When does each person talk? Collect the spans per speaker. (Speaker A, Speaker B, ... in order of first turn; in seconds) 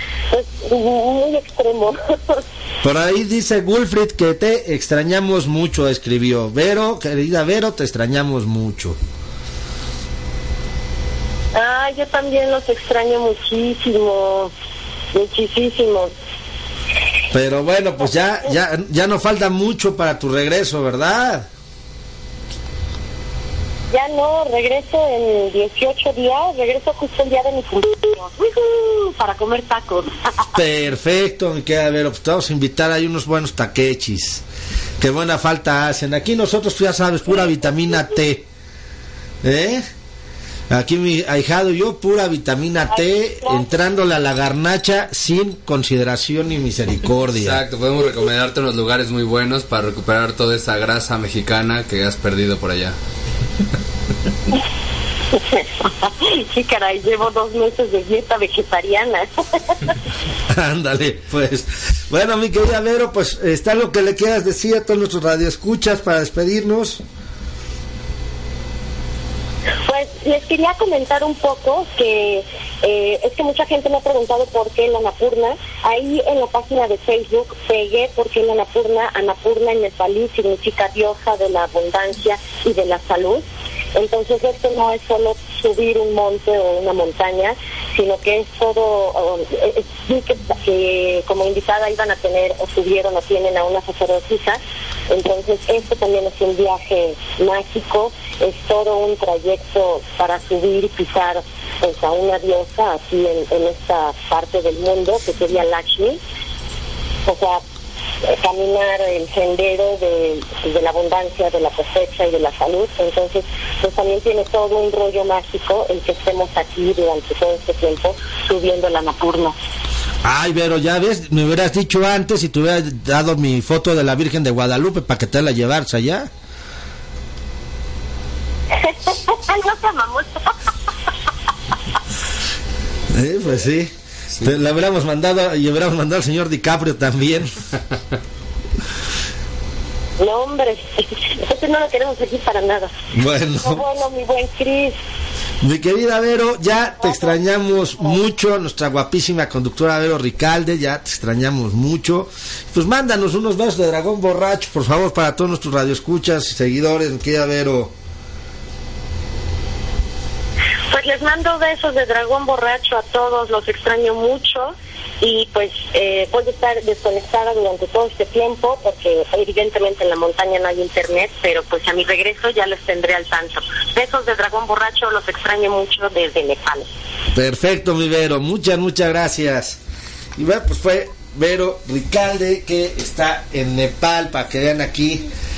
Speaker A: 0.3-2.4, 11.5-14.5, 15.1-16.1, 23.9-30.4, 42.9-43.7, 55.3-59.3, 69.8-83.4, 84.0-106.2, 107.2-107.6, 108.2-119.5, 128.7-130.4, 140.2-142.9, 143.6-144.9, 147.0-148.2, 160.9-176.9
Speaker B: 2.8-9.0, 17.3-21.5, 30.5-34.4, 35.0-38.5, 39.4-39.8, 40.7-47.6, 60.5-67.0, 120.2-126.3, 133.1-137.6, 143.1-143.8, 145.6-157.9, 177.3-179.8, 180.3-185.3
Speaker C: 47.4-52.9